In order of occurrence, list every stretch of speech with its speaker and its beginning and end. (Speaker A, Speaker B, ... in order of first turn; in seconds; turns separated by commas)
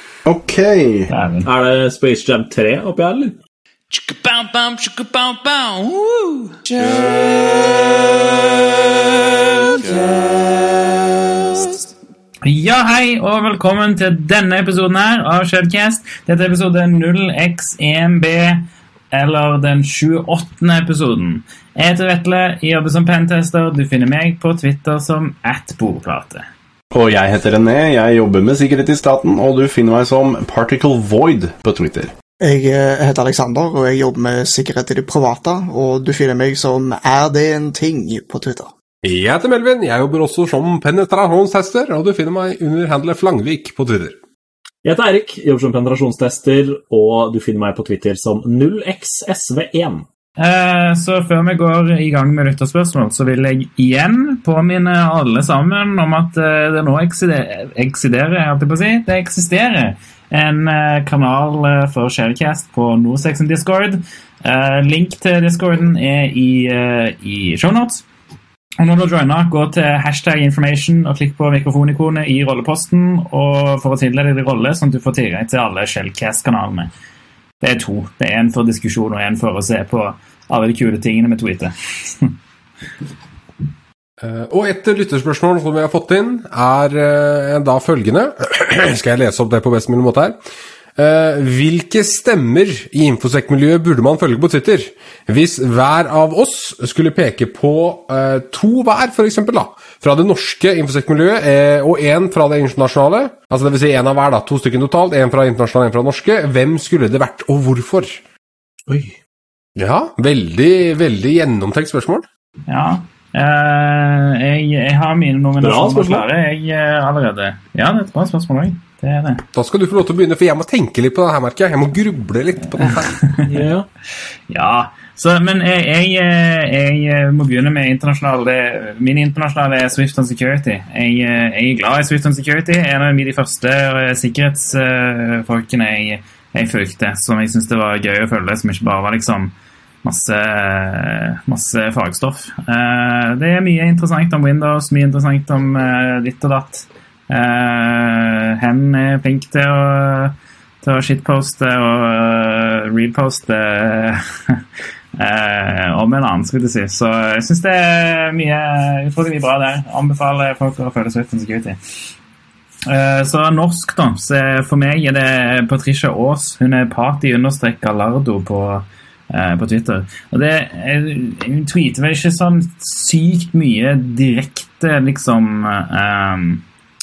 Speaker A: 0.3-1.1, Speaker B: 1.1-1.5, Speaker C: 1.4-3.4, Speaker B: 3.9-11.8, Speaker B: 12.4-26.4, Speaker A: 26.9-32.1, Speaker D: 32.4-38.7, Speaker E: 39.0-44.2, Speaker C: 44.8-50.0, Speaker B: 50.4-68.0, Speaker B: 68.8-76.9, Speaker B: 77.6-82.3, Speaker E: 84.2-90.4, Speaker E: 91.0-108.2, Speaker C: 108.9-109.2, Speaker E: 109.8-112.3, Speaker B: 112.7-119.4, Speaker C: 115.6-116.3, Speaker E: 119.5-123.2, Speaker B: 123.0-123.7, Speaker C: 123.5-123.9, Speaker B: 124.5-139.5, Speaker B: 140.0-154.6, Speaker B: 155.2-161.8, Speaker B: 162.9-176.6